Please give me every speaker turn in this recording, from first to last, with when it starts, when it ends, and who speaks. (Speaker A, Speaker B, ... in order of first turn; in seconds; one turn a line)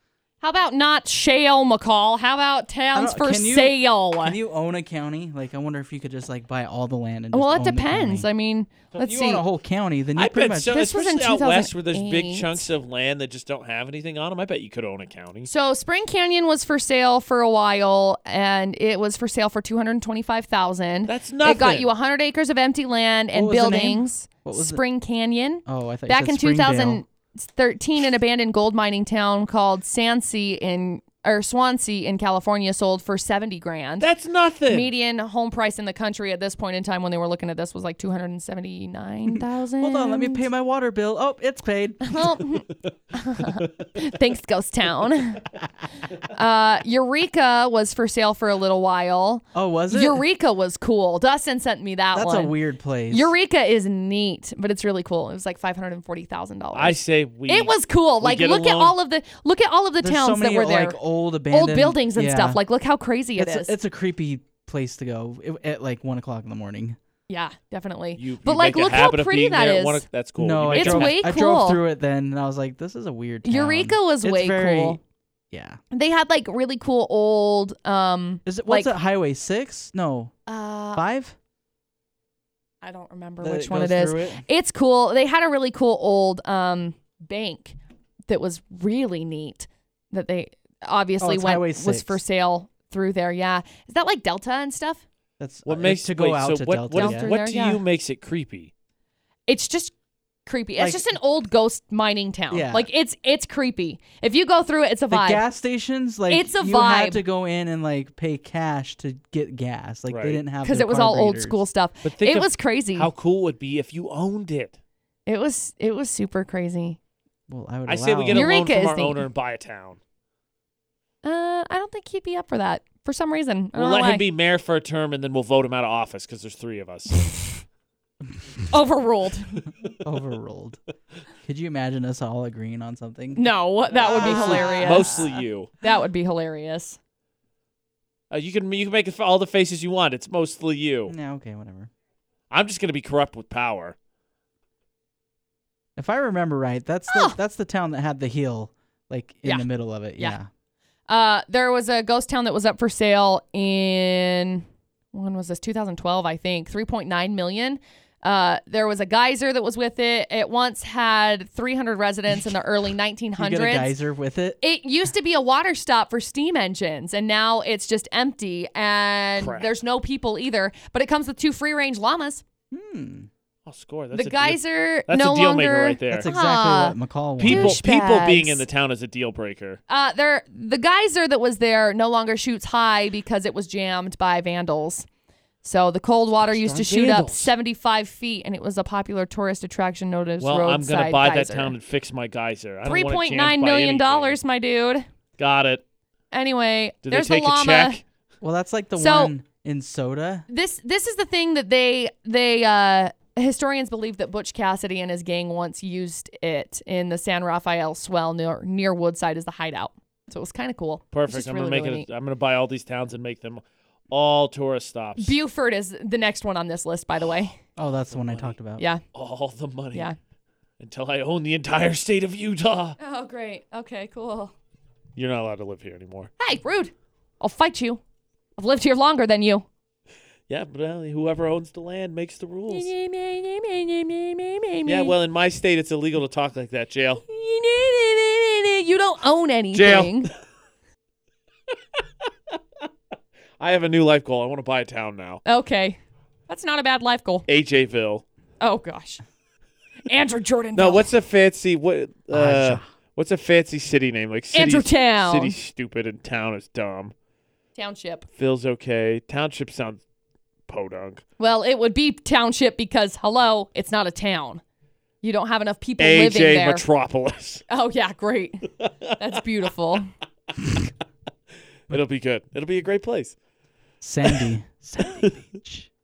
Speaker A: 0.4-4.4
Speaker B: 2.9-8.3
Speaker A: 7.3-9.4
Speaker B: 9.0-10.8
Speaker C: 10.2-15.5
Speaker A: 10.6-12.7
Speaker A: 15.5-34.1
Speaker C: 21.1-21.9
Speaker B: 23.3-24.8
Speaker B: 25.6-27.0
Speaker C: 34.0-34.9
Speaker A: 34.7-40.5
Speaker B: 39.3-42.4
Speaker A: 42.0-45.5
Speaker C: 43.6-43.8
Speaker A: 46.2-52.5
Speaker B: 49.5-50.2
Speaker B: 52.1-53.3
Speaker A: 53.1-61.0
Speaker C: 56.7-58.9
Speaker B: 60.0-62.6
Speaker A: 61.5-63.7
Speaker B: 63.4-67.0
Speaker A: 67.3-70.0
Speaker C: 68.2-71.2
Speaker B: 70.4-75.0
Speaker A: 70.7-71.8
Speaker A: 73.4-75.0
Speaker B: 75.5-75.8
Speaker A: 75.9-78.9
Speaker B: 78.5-80.3
Speaker A: 80.5-81.0
Speaker B: 80.9-81.3
Speaker A: 82.8-87.8
Speaker B: 83.4-84.4
Speaker A: 88.3-95.0
Speaker B: 91.2-92.2
Speaker B: 95.4-97.3
Speaker C: 95.6-98.7
Speaker A: 96.9-97.8
Speaker A: 99.5-99.9
Speaker A: 100.5-105.4
Speaker B: 102.5-102.9
Speaker B: 105.1-111.6
Speaker A: 106.3-107.2
Speaker C: 110.1-110.4
Speaker A: 110.6-113.1
Speaker C: 112.0-114.8
Speaker A: 115.3-117.0
Speaker B: 117.5-118.5
Speaker C: 117.9-120.0
Speaker A: 118.3-119.2
Speaker A: 121.2-124.2
Speaker C: 123.7-127.2
Speaker A: 127.1-127.4
Speaker A: 128.7-129.6
Speaker B: 130.0-130.8
Speaker B: 131.4-135.4
Speaker A: 133.3-137.0
Speaker C: 134.0-135.7
Speaker C: 138.3-141.1
Speaker B: 141.1-141.9
Speaker C: 142.5-143.9
Speaker B: 146.0-150.5
Speaker A: 147.1-147.4
Speaker A: 151.1-163.9
Speaker B: 163.4-164.6
Speaker A: 164.6-172.4
Speaker C: 169.4-169.7
Speaker B: 172.7-173.3
Speaker C: 173.7-176.3
Speaker A: 174.1-178.6
Speaker B: 176.1-177.8
Speaker C: 177.4-179.8
Speaker A: 179.9-185.1
Speaker A: 185.6-191.7
Speaker C: 186.3-187.5
Speaker C: 190.4-194.4
Speaker A: 192.8-195.1
Speaker C: 195.4-195.8
Speaker A: 196.3-198.0
Speaker C: 197.0-198.0
Speaker B: 198.4-200.4
Speaker A: 199.0-199.3
Speaker A: 200.5-212.1
Speaker C: 211.1-215.3
Speaker A: 215.2-217.6
Speaker B: 217.8-218.8
Speaker C: 218.1-218.5
Speaker C: 219.1-220.1
Speaker C: 220.8-223.0
Speaker A: 223.0-224.5
Speaker C: 225.2-226.3
Speaker A: 226.4-228.0
Speaker A: 228.6-229.7
Speaker C: 230.5-232.9
Speaker A: 232.7-235.1
Speaker C: 234.8-237.2
Speaker A: 237.3-240.3
Speaker C: 239.7-240.3
Speaker C: 242.3-242.5
Speaker C: 243.6-245.4
Speaker A: 245.4-247.4
Speaker C: 247.5-248.2
Speaker A: 248.6-249.2
Speaker A: 250.1-251.1
Speaker C: 250.7-257.1
Speaker B: 252.3-252.8
Speaker A: 254.5-255.5
Speaker A: 257.7-258.2
Speaker C: 258.3-260.0
Speaker C: 260.7-261.2
Speaker A: 261.4-264.6
Speaker A: 265.2-266.8
Speaker C: 266.0-267.6
Speaker A: 267.7-270.1
Speaker C: 268.8-269.1
Speaker C: 271.9-273.4
Speaker B: 274.0-275.9
Speaker C: 275.0-275.3